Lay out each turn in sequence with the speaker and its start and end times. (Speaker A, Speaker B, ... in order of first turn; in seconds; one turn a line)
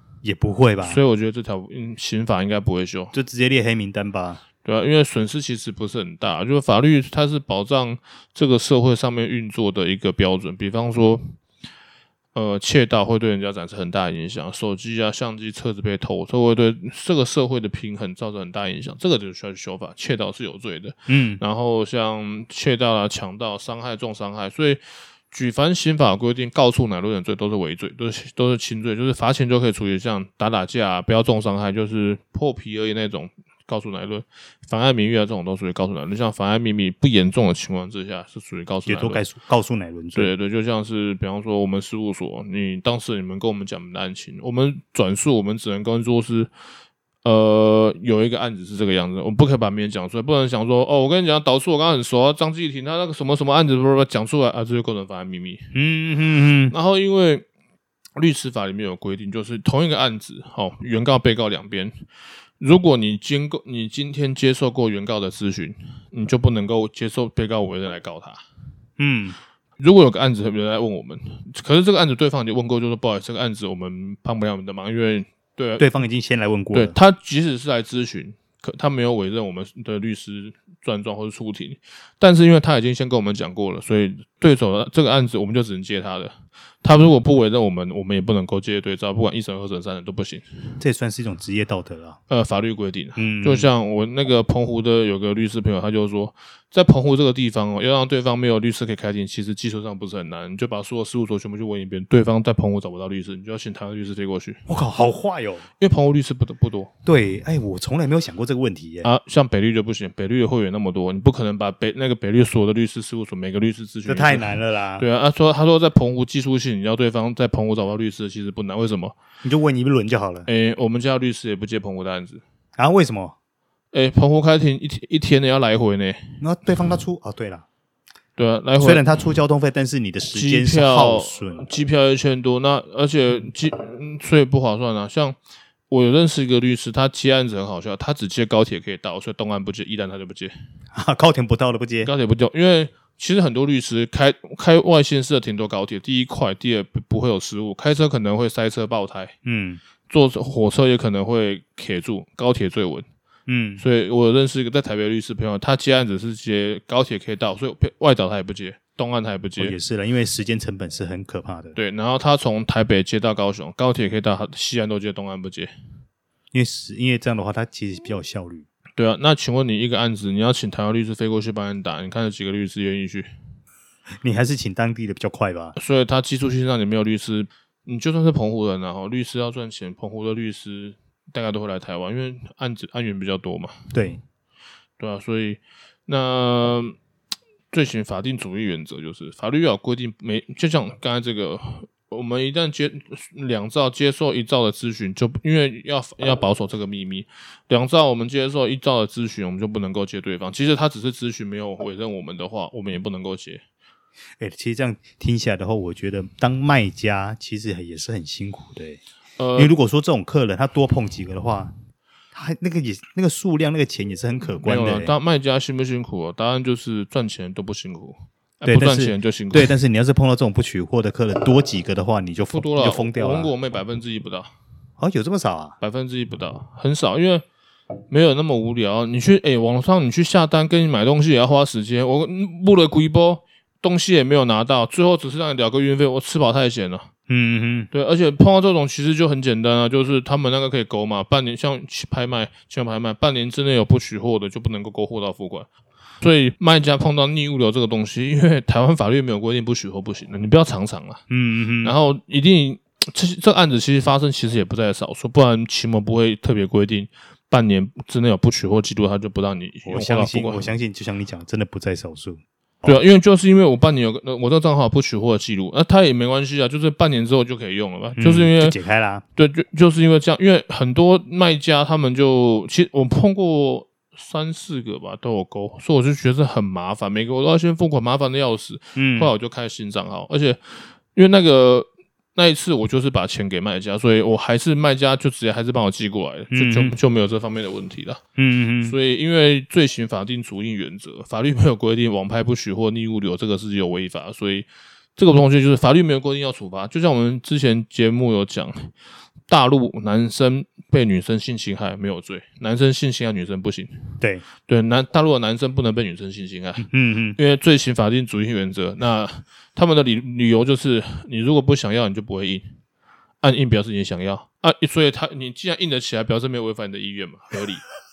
Speaker A: 0.2-1.0
Speaker B: 0.8-3.1
Speaker A: 3.1-4.4
Speaker B: 4.6-11.3
Speaker B: 12.3-39.2
Speaker A: 21.1-21.4
Speaker A: 38.9-40.3
Speaker B: 40.1-46.5
Speaker B: 47.2-55.7
Speaker A: 55.7-56.7
Speaker B: 56.7-57.5
Speaker B: 58.2-61.9
Speaker B: 62.6-68.4
Speaker A: 69.0-69.4
Speaker B: 69.8-75.9
Speaker A: 75.8-76.9
Speaker B: 76.7-90.4
Speaker A: 90.8-92.2
Speaker B: 92.3-104.6
Speaker A: 93.2-93.7
Speaker A: 104.7-105.6
Speaker B: 105.8-106.9
Speaker A: 107.1-109.1
Speaker B: 109.0-119.1
Speaker A: 114.1-115.0
Speaker A: 119.4-120.5
Speaker B: 120.5-122.4
Speaker A: 122.8-123.3
Speaker B: 123.9-126.2
Speaker A: 126.4-127.6
Speaker B: 128.4-129.0
Speaker A: 128.8-131.7
Speaker B: 130.3-135.4
Speaker B: 135.9-140.5
Speaker A: 140.9-142.1
Speaker B: 142.0-149.3
Speaker A: 149.4-149.8
Speaker B: 150.1-153.1
Speaker A: 153.5-153.8
Speaker B: 153.8-159.8
Speaker A: 159.6-161.8
Speaker B: 161.8-165.7
Speaker A: 166.5-168.7
Speaker B: 169.0-173.3
Speaker A: 174.2-175.8
Speaker B: 175.8-183.7
Speaker A: 183.9-184.2
Speaker B: 185.0-186.9
Speaker B: 187.7-203.6
Speaker A: 204.4-209.0
Speaker B: 209.4-209.8
Speaker A: 209.6-211.7
Speaker A: 212.3-215.1
Speaker B: 214.4-219.8
Speaker A: 218.6-223.5
Speaker B: 222.5-224.5
Speaker A: 225.0-225.8
Speaker B: 225.8-227.4
Speaker B: 228.1-237.1
Speaker A: 237.3-237.9
Speaker B: 237.9-245.7
Speaker B: 246.2-251.2
Speaker A: 251.3-251.9
Speaker B: 251.8-260.7
Speaker A: 259.9-263.0
Speaker B: 262.8-268.8
Speaker A: 268.2-269.2
Speaker B: 269.4-288.2
Speaker A: 278.9-279.3
Speaker A: 286.5-286.9
Speaker A: 288.4-288.9
Speaker B: 288.8-298.9
Speaker B: 299.5-304.0
Speaker B: 304.6-312.7
Speaker A: 306.8-307.4
Speaker B: 313.4-317.8